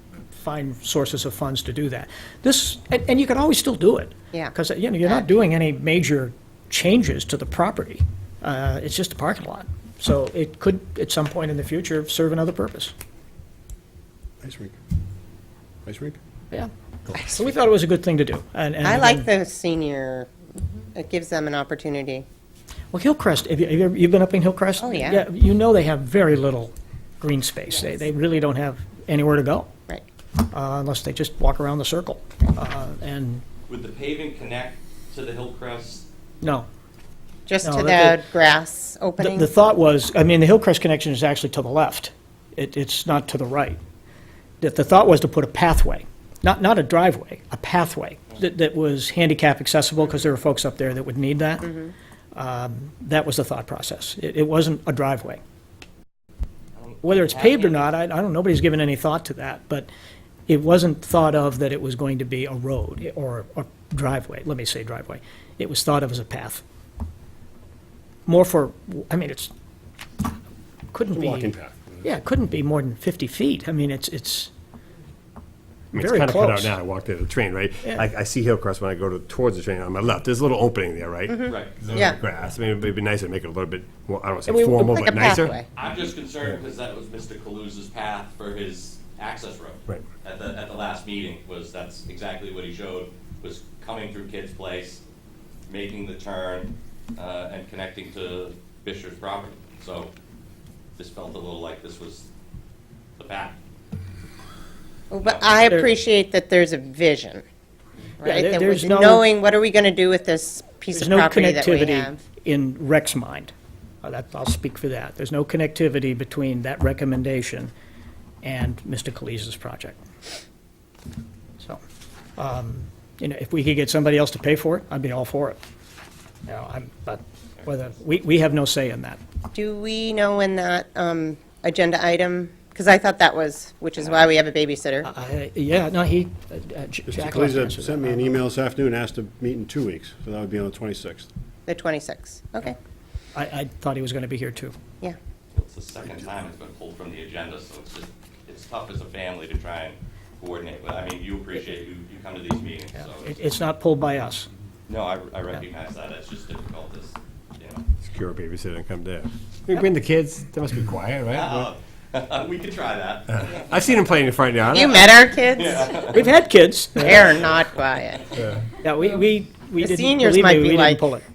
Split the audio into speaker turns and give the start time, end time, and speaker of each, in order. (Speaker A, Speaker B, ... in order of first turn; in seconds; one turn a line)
Speaker A: 0.3-12.9
Speaker B: 4.3-5.2
Speaker C: 14.4-14.8
Speaker C: 15.9-16.2
Speaker A: 16.5-19.3
Speaker B: 18.8-22.3
Speaker A: 22.9-29.7
Speaker B: 24.8-25.2
Speaker A: 30.5-33.4
Speaker D: 33.7-36.0
Speaker A: 36.4-36.7
Speaker B: 37.5-39.5
Speaker A: 37.6-38.2
Speaker A: 39.2-43.8
Speaker A: 44.6-51.7
Speaker B: 51.6-51.9
Speaker A: 52.4-55.4
Speaker D: 56.8-57.9
Speaker A: 57.0-59.9
Speaker A: 60.5-66.6
Speaker A: 68.3-69.5
Speaker A: 70.9-74.5
Speaker C: 71.1-72.1
Speaker E: 75.9-85.6
Speaker A: 76.0-76.8
Speaker B: 81.3-82.2
Speaker D: 81.5-81.8
Speaker C: 81.8-82.1
Speaker B: 84.5-85.7
Speaker D: 85.8-95.0
Speaker D: 95.7-100.1
Speaker D: 101.0-102.3
Speaker D: 103.2-103.6
Speaker B: 105.1-107.4
Speaker D: 105.2-105.8
Speaker B: 108.2-112.2
Speaker A: 108.2-109.3
Speaker A: 110.9-117.7
Speaker A: 118.4-120.0
Speaker A: 122.4-125.6
Speaker A: 126.5-129.2
Speaker B: 129.5-135.1
Speaker A: 135.1-138.4
Speaker C: 137.1-141.3
Speaker B: 141.7-142.8
Speaker A: 143.3-144.8
Speaker D: 145.5-153.3
Speaker A: 153.1-154.5
Speaker D: 154.9-157.8
Speaker E: 158.0-161.7
Speaker D: 161.3-163.8
Speaker E: 163.3-165.1
Speaker B: 164.7-166.2
Speaker D: 165.5-166.3
Speaker A: 166.1-167.4
Speaker B: 167.0-168.3
Speaker A: 168.8-171.2
Speaker B: 169.8-171.0